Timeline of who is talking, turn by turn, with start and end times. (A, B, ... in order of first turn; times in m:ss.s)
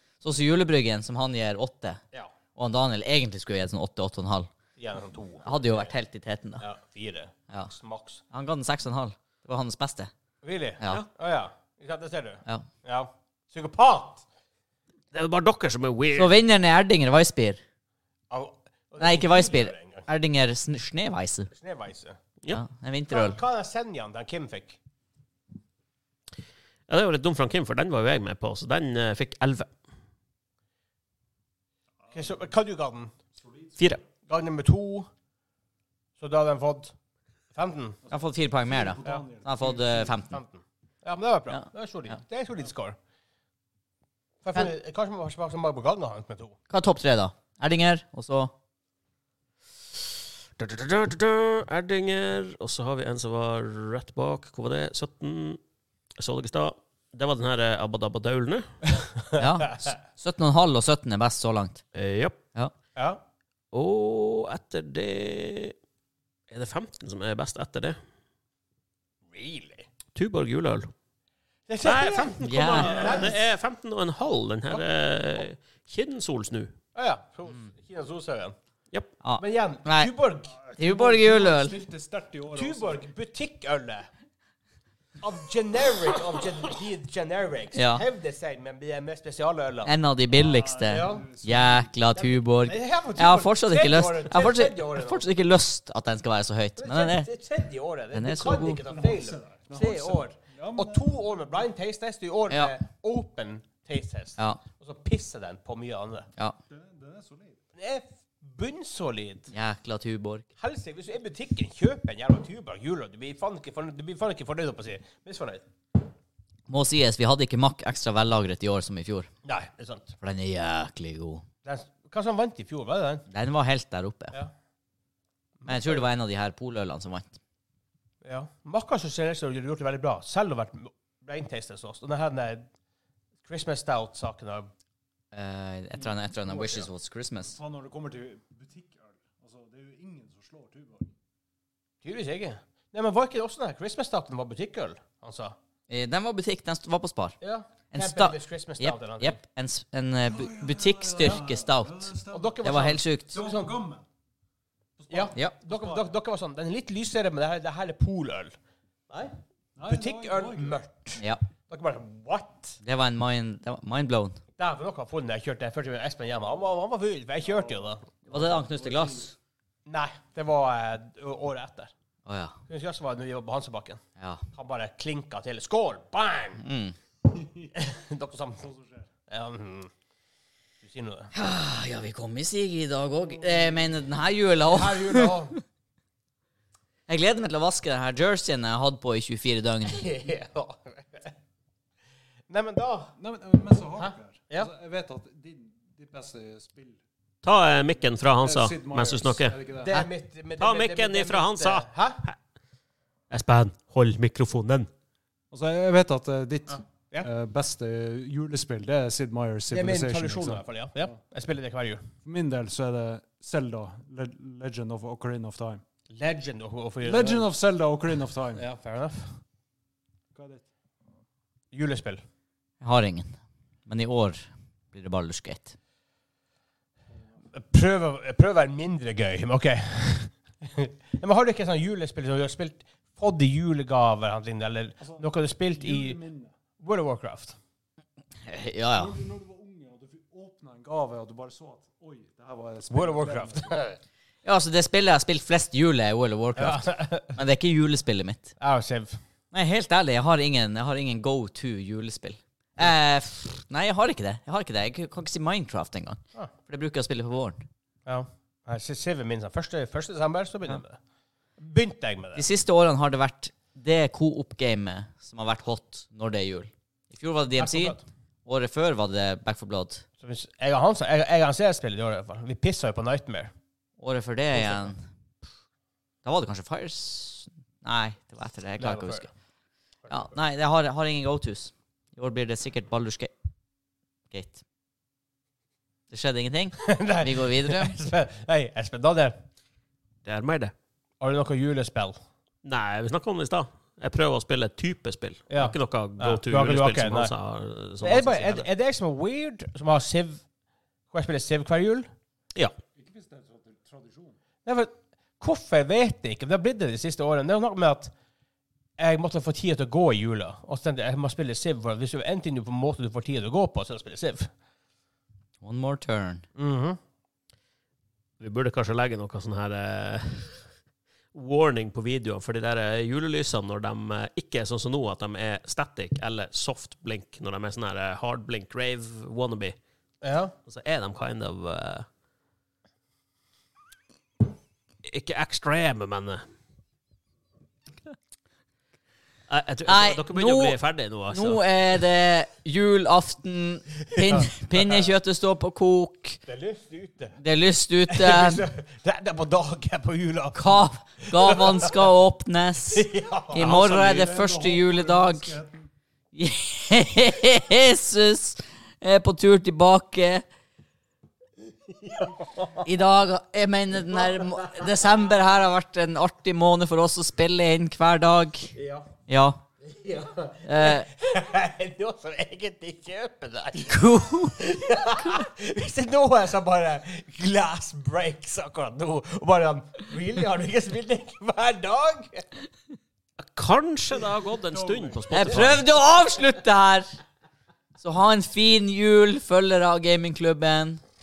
0:00.2-0:02.0 A
0:02.5-0:04.5 A
0:04.8-0:05.9 B
0:05.4-0:06.6 A
0:06.6-0:08.2 B
0:08.3-0:10.1 A
0:10.4-0:14.2 B
0:15.1-0:16.3 C
0:16.1-0:17.6 A
0:18.3-0:20.0 B
0:19.0-0:21.5 A
0:21.5-0:22.2 B
0:22.5-0:23.4 A
0:23.1-0:24.8 B
0:26.9-0:29.7 C
0:32.0-0:32.4 D
0:32.1-0:33.1 B
0:33.4-0:34.0 D
0:34.3-0:35.1 B
0:36.2-0:36.9 B
0:37.5-0:38.0 B
0:38.0-0:40.1 D
0:38.1-0:40.4 A
0:40.1-0:43.0 B
0:41.5-0:42.2 A
0:44.4-0:46.6 B
0:46.7-0:48.5 A
0:50.6-0:55.6 C
0:56.2-0:58.7 C
0:59.0-0:59.9 B
0:59.3-1:01.8 A
1:01.9-1:02.4 C
1:02.9-1:03.2 B
1:03.7-1:05.7 C
1:06.5-1:08.0 C
1:09.3-1:09.9 B
1:10.1-1:10.9 C
1:11.7-1:13.4 B
1:11.8-1:16.7 C
1:12.4-1:13.2 A
1:16.9-1:18.5 B
1:19.2-1:20.1 A
1:19.4-1:20.5 B
1:20.5-1:23.1 D
1:20.8-1:21.8 A
1:22.5-1:24.1 B
1:25.2-1:29.9 B
1:27.7-1:28.0 A
1:29.8-1:37.3 A
1:30.3-1:31.9 D
1:30.9-1:31.3 B
1:32.1-1:35.3 B
1:36.8-1:46.3 B
1:38.1-1:38.8 A
1:38.8-1:41.1 D
1:42.5-1:42.7 A
1:46.7-1:47.6 D
1:47.8-1:49.5 B
1:49.5-1:50.4 A
1:50.6-1:55.6 B
1:56.7-1:59.3 A
1:59.4-2:00.2 B
2:00.2-2:01.4 A
2:01.6-2:03.2 B
2:03.3-2:04.4 A
2:05.6-2:06.0 B
2:05.6-2:07.4 A
2:08.2-2:12.7 B
2:13.4-2:14.7 B
2:15.3-2:17.6 A
2:16.0-2:16.8 D
2:16.5-2:16.8 B
2:17.4-2:21.1 D
2:22.0-2:25.6 B
2:25.9-2:27.4 A
2:27.4-2:29.4 B
2:27.9-2:33.3 A
2:30.3-2:34.0 D
2:32.3-2:33.8 B
2:35.0-2:36.0 D
2:35.1-2:38.6 B
2:39.1-2:42.8 B
2:39.8-2:40.8 D
2:41.2-2:41.4 A
2:42.8-2:44.4 A
2:44.6-2:48.0 B
2:47.6-2:49.3 D
2:48.3-2:49.3 A
2:49.8-2:51.9 B
2:52.2-2:52.6 A
2:52.7-2:54.0 B
2:54.2-2:54.4 A
2:54.5-2:56.6 B
2:56.6-2:57.0 A
2:57.3-2:57.7 D
2:57.7-2:58.6 B
2:58.6-2:59.1 D
2:59.3-2:59.9 B
3:00.8-3:01.3 B
3:01.3-3:05.5 A
3:04.7-3:05.5 B
3:07.1-3:10.0 A
3:09.9-3:11.3 B
3:12.5-3:13.1 B
3:13.2-3:17.0 D
3:14.0-3:14.7 B
3:17.4-3:19.6 C
3:18.4-3:20.0 D
3:19.8-3:22.2 B
3:20.6-3:22.4 C
3:23.3-3:24.9 C
3:25.5-3:31.1 D
3:29.7-3:32.0 B
3:32.2-3:35.8 D
3:36.1-3:37.5 B
3:37.0-3:38.6 D
3:38.5-3:39.4 B
3:40.3-3:40.7 D
3:41.7-3:42.2 B
3:42.8-3:45.7 A
3:47.5-3:56.2 B
3:55.0-3:56.5 D
3:56.8-3:57.6 B
3:58.4-3:59.1 A
3:58.9-4:03.8 D
4:02.9-4:04.0 B
4:04.4-4:08.5 A
4:06.6-4:07.4 B
4:08.6-4:09.2 B
4:09.5-4:17.6 A
4:18.0-4:21.0 B
4:21.6-4:22.4 B
4:22.3-4:30.0 A
4:27.6-4:28.0 B
4:30.2-4:33.5 B
4:34.0-4:35.0 A
4:34.5-4:34.9 B
4:36.2-4:39.3 A
4:38.8-4:39.3 B
4:40.0-4:40.4 B
4:40.1-4:43.3 A
4:44.3-4:44.6 A
4:46.1-4:48.0 A
4:46.8-4:49.4 B
4:50.2-4:50.7 C
4:51.2-4:52.2 B
4:52.6-4:58.7 C
4:55.5-4:57.3 B
4:58.0-5:00.4 B
5:01.1-5:02.1 B
5:02.9-5:04.4 D
5:04.6-5:08.1 B
5:09.0-5:14.5 B
5:15.6-5:16.4 A
5:16.6-5:17.0 B
5:18.4-5:20.7 C
5:21.3-5:29.8 C
5:30.2-5:30.5 B
5:30.6-5:32.0 C
5:35.0-5:36.4 C
5:39.5-5:41.6 C
5:39.8-5:40.8 A
5:41.3-5:46.4 A
5:44.1-5:45.1 B
5:46.5-5:47.4 B
5:47.4-5:48.6 A
5:48.1-5:52.1 B
5:50.5-5:55.5 A
5:52.9-5:53.9 B
5:53.5-5:55.9 D
5:56.3-6:00.4 A
6:01.9-6:02.9 B
6:02.8-6:08.7 A
6:04.1-6:04.9 B
6:08.7-6:09.1 B
6:09.3-6:09.6 A
6:09.8-6:22.4 B
6:10.6-6:11.1 A
6:13.8-6:14.6 A
6:23.4-6:25.8 C
6:25.3-6:27.1 A
6:25.4-6:25.8 B
6:28.0-6:31.0 A